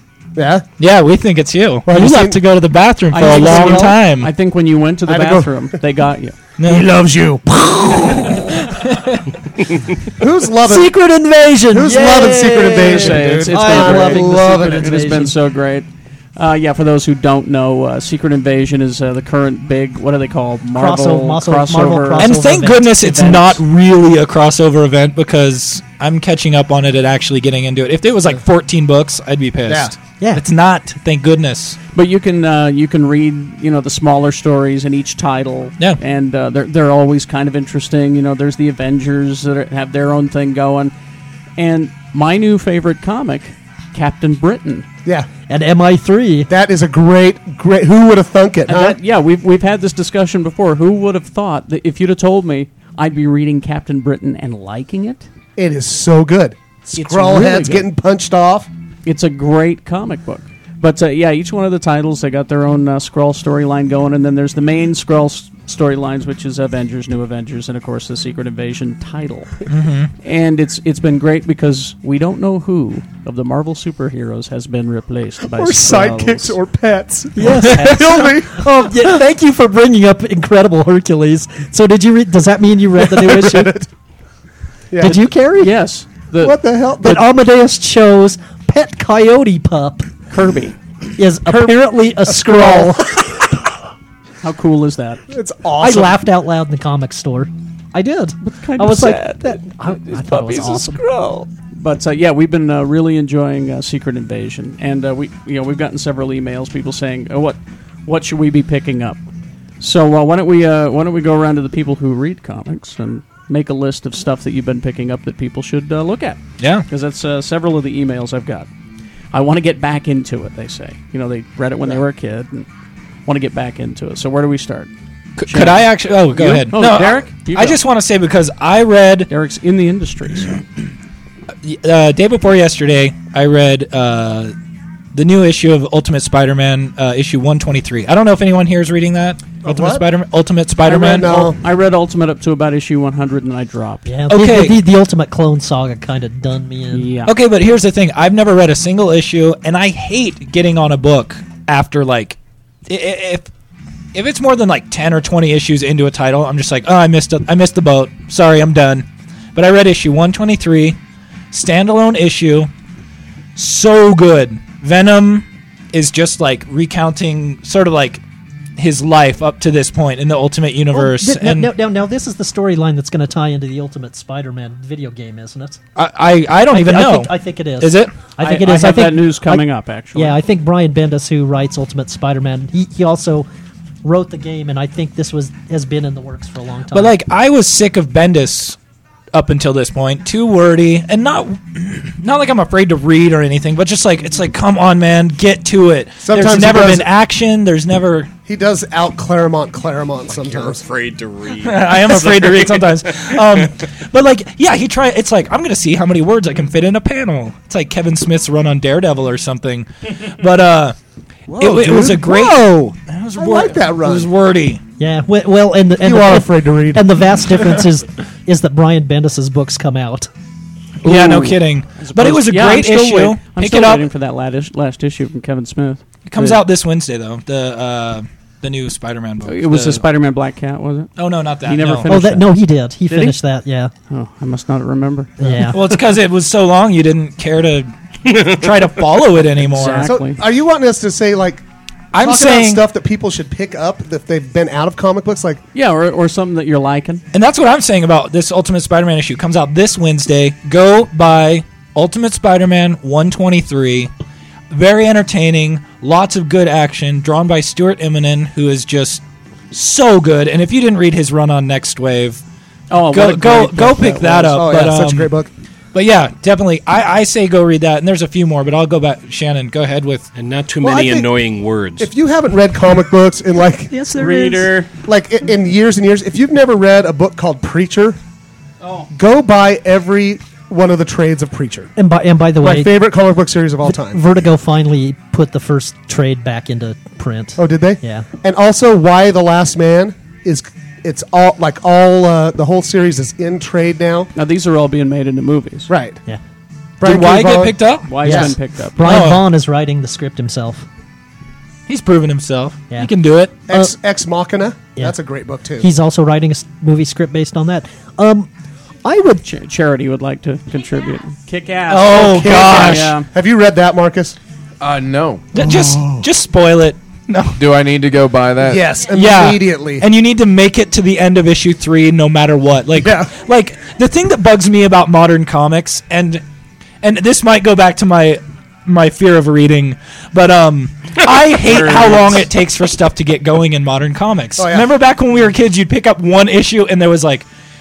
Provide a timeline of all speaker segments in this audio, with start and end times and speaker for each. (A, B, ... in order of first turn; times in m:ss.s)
0:00.4-0:00.6 A
0:00.8-0:04.3 B
0:01.9-0:02.4 A
0:03.1-0:06.4 C
0:03.2-0:03.9 A
0:05.1-0:05.6 A
0:06.6-0:06.9 B
0:06.6-0:08.7 A
0:08.7-0:09.2 B
0:10.2-0:11.0 A
0:10.6-0:15.3 D
0:11.7-0:15.1 A
0:12.8-0:22.4 C
0:20.8-0:23.6 D
0:22.2-0:31.8 B
0:29.7-0:29.9 A
0:31.9-0:40.9 C
0:41.6-0:44.8 C
0:45.5-0:46.5 D
0:46.5-0:49.0 A
0:48.7-0:55.3 C
0:55.6-0:58.7 A
0:57.0-0:57.9 C
0:59.1-1:09.5 C
1:09.7-1:10.1 B
1:10.2-1:16.6 C
1:15.5-1:18.7 A
1:17.4-1:23.8 D
1:17.6-1:18.3 C
1:23.0-1:23.9 A
1:24.9-1:25.3 A
1:25.0-1:25.8 D
1:25.0-1:26.6 C
1:26.4-1:27.3 A
1:27.0-1:30.1 D
1:30.3-1:30.8 C
1:31.2-1:33.2 D
1:31.5-1:33.6 A
1:34.4-1:35.2 C
1:35.3-1:36.2 A
1:35.8-1:41.0 D
1:38.4-1:49.2 C
1:49.8-1:58.7 C
1:56.6-1:56.8 B
1:59.3-2:02.7 C
2:03.2-2:04.9 C
2:05.4-2:09.3 B
2:05.5-2:07.8 C
2:09.3-2:10.6 C
2:11.6-2:14.5 B
2:15.1-2:21.5 B
2:19.6-2:20.0 A
2:20.8-2:24.1 C
2:21.0-2:21.6 A
2:24.1-2:27.1 D
2:24.3-2:24.8 B
2:26.9-2:27.3 C
2:27.2-2:33.5 B
2:34.1-2:41.0 B
2:41.5-2:42.7 B
2:43.5-2:48.2 B
2:48.8-2:51.7 B
2:50.9-2:55.8 D
2:56.0-2:58.2 B
2:56.7-3:03.5 D
2:58.4-3:00.4 C
3:04.0-3:07.2 D
3:06.9-3:08.8 B
3:09.3-3:18.3 B
3:16.2-3:17.1 A
3:18.5-3:20.8 A
3:20.3-3:23.4 E
3:21.6-3:31.0 B
3:31.5-3:32.6 A
3:31.6-3:34.8 B
3:33.4-3:34.3 A
3:35.0-3:40.3 D
3:36.0-3:37.1 A
3:41.0-3:44.1 B
3:41.0-3:46.6 C
3:46.3-3:50.0 B
3:49.4-3:52.5 C
3:51.2-3:52.1 B
3:52.0-3:53.9 D
3:53.1-3:53.4 C
3:54.1-3:55.7 C
3:55.4-3:55.8 D
3:55.6-4:00.1 B
3:59.6-4:00.4 C
4:00.0-4:01.6 A
4:02.1-4:02.8 B
4:02.2-4:05.6 A
4:05.7-4:07.2 C
4:07.3-4:14.1 B
4:14.7-4:22.4 B
4:22.9-4:24.6 C
4:23.0-4:25.3 B
4:24.4-4:25.5 A
4:25.9-4:30.3 B
4:30.4-4:32.1 E
4:30.8-4:31.3 A
4:32.0-4:33.9 A
4:33.9-4:34.7 D
4:34.2-4:34.9 C
4:35.0-4:38.2 A
4:39.1-4:41.9 A
4:42.0-4:42.9 D
4:42.6-4:44.2 A
4:43.8-4:48.3 D
4:47.6-4:54.3 A
4:54.4-4:55.9 C
4:55.9-4:56.2 A
4:57.0-4:58.4 A
4:57.0-4:58.4 B
4:58.1-4:59.1 C
4:58.2-5:00.8 D
4:59.0-4:59.4 B
5:01.9-5:03.5 B
5:03.7-5:05.9 A
5:05.8-5:08.5 D
5:09.0-5:09.4 D
5:09.4-5:13.3 C
5:11.9-5:13.1 B
5:12.1-5:14.4 A
5:14.8-5:15.5 F
5:15.5-5:17.6 B
5:15.6-5:16.2 A
5:17.6-5:18.8 F
5:18.6-5:20.1 A
5:19.1-5:26.4 B
5:23.0-5:23.3 A
5:27.0-5:37.5 B
5:34.6-5:34.9 A